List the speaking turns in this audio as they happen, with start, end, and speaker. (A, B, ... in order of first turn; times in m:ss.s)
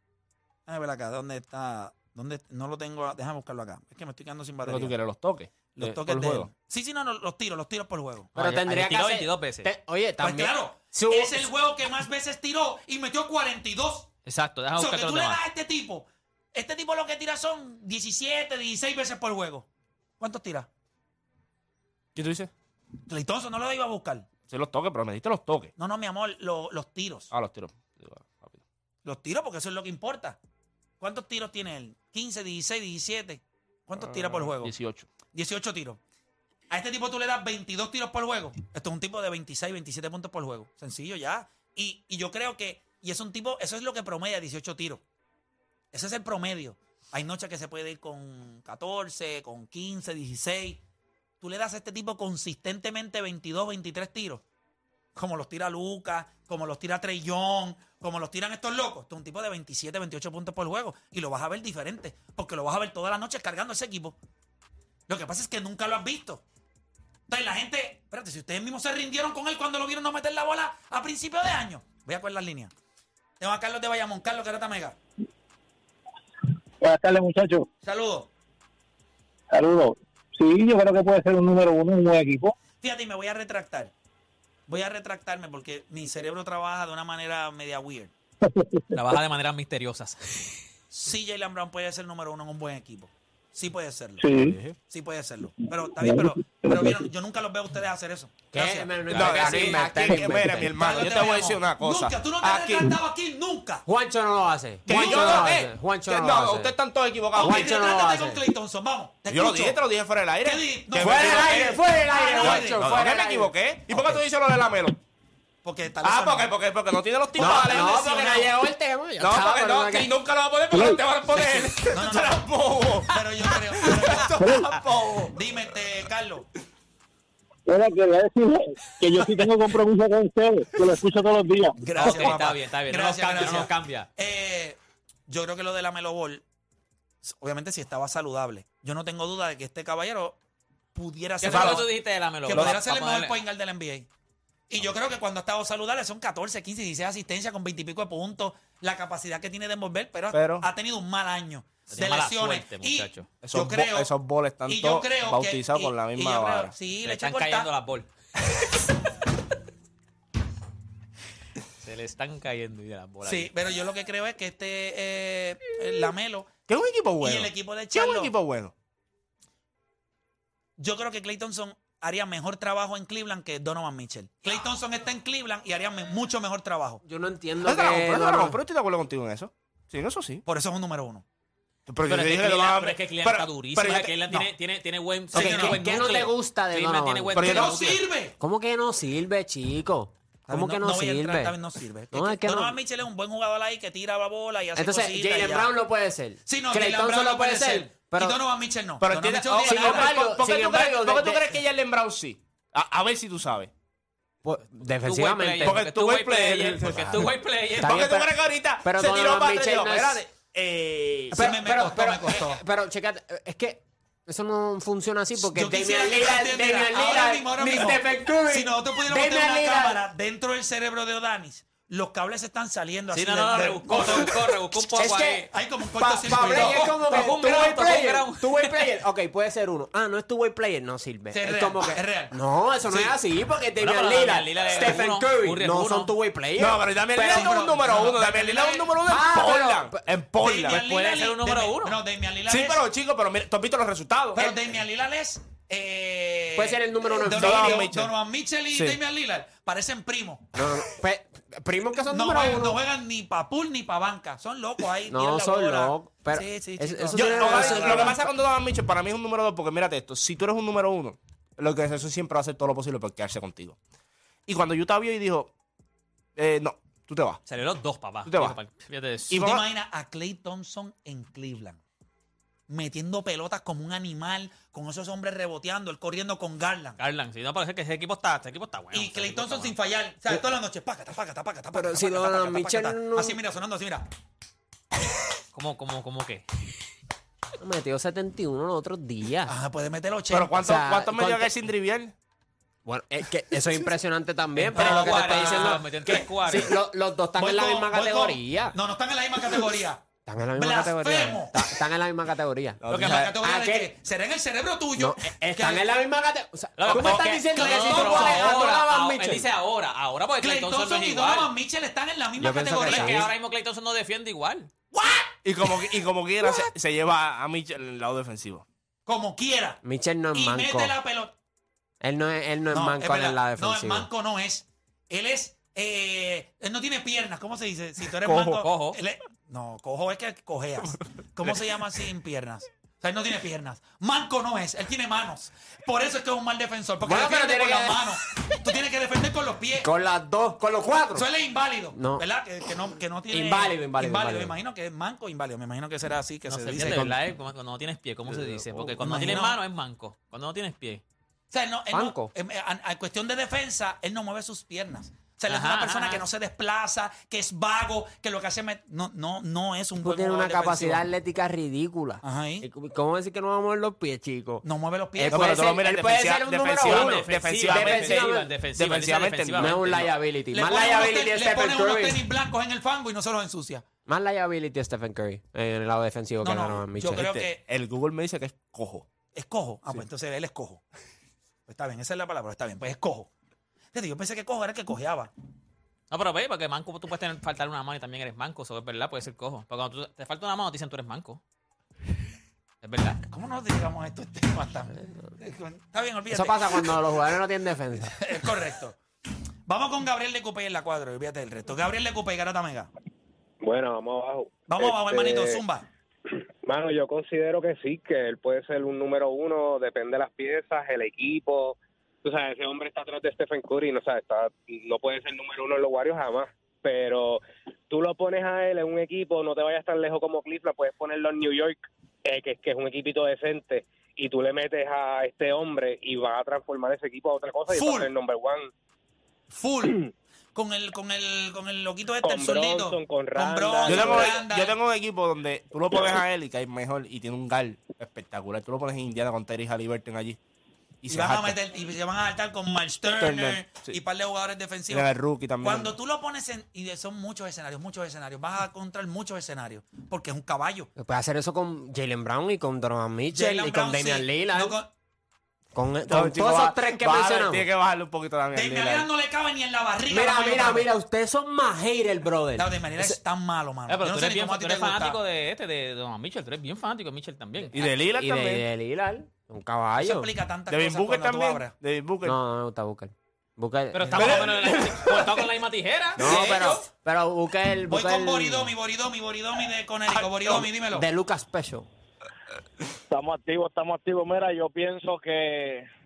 0:00.7-0:05.0 A
0:04.6-0:06.5 B
0:05.8-0:08.3 A
0:08.4-0:09.7 C
0:08.4-0:11.5 D
0:10.2-0:14.1 A
0:14.3-0:15.4 C
0:14.8-0:19.7 A
0:20.2-0:20.7 A
0:22.2-0:22.5 B
0:23.1-0:24.3 A
0:24.5-0:25.7 B
0:25.8-0:27.3 A
0:27.3-0:28.6 B
0:29.0-0:30.4 A
0:31.0-0:34.7 A
0:34.0-0:35.1 B
0:35.3-0:36.0 A
0:36.7-0:45.0 A
0:45.9-0:50.8 A
0:51.4-0:54.4 A
0:55.2-1:04.2 A
1:05.1-1:06.4 A
1:07.3-1:12.7 A
1:13.4-1:15.0 A
1:16.8-1:17.7 E
1:17.8-1:18.3 A
1:19.5-1:22.5 E
1:22.8-1:23.9 A
1:24.7-1:28.1 A
1:28.4-1:28.9 E
1:28.9-1:30.6 C
1:30.9-1:34.3 A
1:34.2-1:34.6 E
1:34.4-1:34.8 B
1:34.8-1:38.9 A
1:36.0-1:37.1 E
1:38.5-1:40.8 D
1:39.1-1:39.8 C
1:39.1-1:43.0 B
1:40.7-1:43.8 A
1:43.9-1:46.8 D
1:44.9-1:47.8 B
1:44.9-1:45.5 A
1:47.4-1:49.8 A
1:47.4-1:48.4 D
1:49.3-1:55.0 B
1:50.4-1:53.0 A
1:51.0-1:54.2 D
1:55.6-1:56.5 A
1:56.0-1:58.4 B
1:57.4-1:58.6 A
1:57.4-2:00.2 D
1:59.2-2:05.5 B
2:00.7-2:01.0 E
2:01.9-2:02.5 A
2:03.1-2:04.4 A
2:04.4-2:04.7 E
2:05.2-2:06.5 A
2:07.7-2:12.3 E
2:11.8-2:16.4 A
2:12.0-2:14.1 C
2:17.2-2:20.4 A
2:21.0-2:21.9 A
2:21.4-2:23.4 C
2:21.4-2:21.9 B
2:22.5-2:24.1 A
2:22.5-2:22.8 B
2:24.7-2:34.1 A
2:30.3-2:30.7 B
2:31.9-2:33.3 C
2:33.4-2:36.7 B
2:34.7-2:37.7 A
2:37.0-2:38.1 C
2:41.8-2:43.5 C
2:43.2-2:46.5 A
2:46.7-2:48.7 B
2:47.2-2:48.3 A
2:50.8-2:57.0 A
2:57.0-2:58.6 D
2:57.6-3:00.4 B
3:00.5-3:01.2 A
3:01.9-3:04.2 B
3:02.1-3:08.0 C
3:05.3-3:06.2 A
3:05.3-3:07.7 D
3:07.3-3:08.0 B
3:07.4-3:08.4 A
3:08.4-3:11.6 D
3:10.5-3:15.7 A
3:12.1-3:12.8 D
3:14.8-3:18.4 D
3:16.5-3:20.1 A
3:19.0-3:23.7 B
3:19.6-3:21.6 D
3:24.4-3:25.8 D
3:25.0-3:28.0 C
3:25.6-3:31.4 B
3:26.9-3:30.2 D
3:31.3-3:32.6 A
3:31.3-3:40.0 D
3:35.4-3:44.6 A
3:43.1-3:45.5 C
3:45.0-3:57.6 D
3:45.5-3:47.0 A
3:46.3-3:48.8 C
3:51.3-3:53.1 A
3:53.8-3:56.1 C
3:56.6-4:00.8 B
3:57.1-3:58.9 A
3:59.1-4:00.1 D
4:00.4-4:02.8 A
4:00.7-4:02.0 C
4:02.5-4:04.6 B
4:04.3-4:10.5 A
4:06.6-4:07.9 D
4:07.3-4:08.1 B
4:08.7-4:09.0 B
4:10.6-4:12.8 D
4:12.1-4:18.2 A
4:15.1-4:18.3 D
4:17.1-4:23.8 B
4:24.5-4:25.5 B
4:26.4-4:27.4 B
4:27.5-4:29.4 C
4:28.3-4:28.6 B
4:29.3-4:29.7 B
4:29.3-4:31.8 A
4:32.7-4:37.0 A
4:37.0-4:39.8 C
4:38.9-4:44.1 A
4:41.7-4:43.4 D
4:45.5-4:46.5 C
4:47.6-4:49.5 D
4:49.5-4:50.6 A
4:50.3-4:52.1 B
4:50.6-4:51.5 D
4:52.9-4:58.8 D
4:54.6-4:56.8 C
4:54.7-4:56.8 A
4:57.4-5:00.0 A
5:00.3-5:03.9 D
5:00.6-5:01.6 A
5:02.8-5:03.4 B
5:02.9-5:05.9 A
5:05.0-5:09.5 D
5:06.8-5:11.5 C
5:06.9-5:08.8 A
5:10.4-5:13.3 A
5:12.4-5:13.3 D
5:12.8-5:14.7 C
5:14.9-5:15.3 A
5:15.4-5:18.6 B
5:19.1-5:19.8 A
5:19.8-5:21.0 D
5:20.3-5:21.3 A
5:22.0-5:24.1 D
5:22.7-5:39.9 A
5:28.2-5:29.0 C
5:31.4-5:31.7 B
5:37.0-5:38.0 D
5:39.8-5:41.3 D
5:41.1-5:47.1 A
5:41.9-5:42.2 D
5:43.3-5:44.6 D
5:46.5-5:51.0 C
5:48.4-5:48.6 B
5:49.0-5:49.6 A
5:51.5-6:01.0 A
5:51.9-5:52.3 D
5:55.5-5:56.2 C
6:00.0-6:04.6 D
6:02.2-6:02.7 A
6:04.6-6:05.7 A
6:05.2-6:08.5 D
6:05.3-6:10.0 B
6:06.8-6:10.1 C
6:09.6-6:12.2 D
6:10.5-6:13.8 A
6:14.1-6:17.3 D
6:16.4-6:17.6 A
6:17.0-6:19.1 B
6:19.3-6:20.8 A
6:21.7-6:23.3 A
6:23.9-6:25.3 A
6:26.1-6:31.4 C
6:32.8-6:33.2 C
6:33.3-6:37.0 A
6:36.3-6:38.2 D
6:38.2-6:39.0 A
6:39.7-6:42.9 A
6:43.6-6:45.6 F
6:44.7-6:45.9 A
6:46.3-7:08.7 F
7:07.8-7:08.1 A
7:09.5-7:10.0 A
7:10.6-7:14.8 A
7:12.2-7:14.4 F
7:13.9-7:20.4 B
7:21.0-7:21.6 B
7:21.1-7:30.9 A
7:23.1-7:24.0 B
7:24.9-7:26.0 B
7:31.0-7:34.8 D
7:33.3-7:34.9 A
7:35.8-7:37.7 D
7:36.1-7:39.1 B
7:38.5-7:40.9 A
7:40.1-7:43.2 D
7:42.6-7:45.2 A
7:43.9-7:47.8 C
7:47.7-7:48.6 B
7:48.2-7:50.3 D
7:50.0-7:51.7 A
7:50.7-7:52.4 B
7:52.2-7:54.2 D
7:53.9-7:56.4 C
7:54.1-7:54.4 A
7:54.1-7:55.5 B
7:56.2-7:56.8 B
7:56.2-7:58.7 D
7:57.9-8:01.1 A
8:00.9-8:01.9 D
8:03.1-8:05.9 G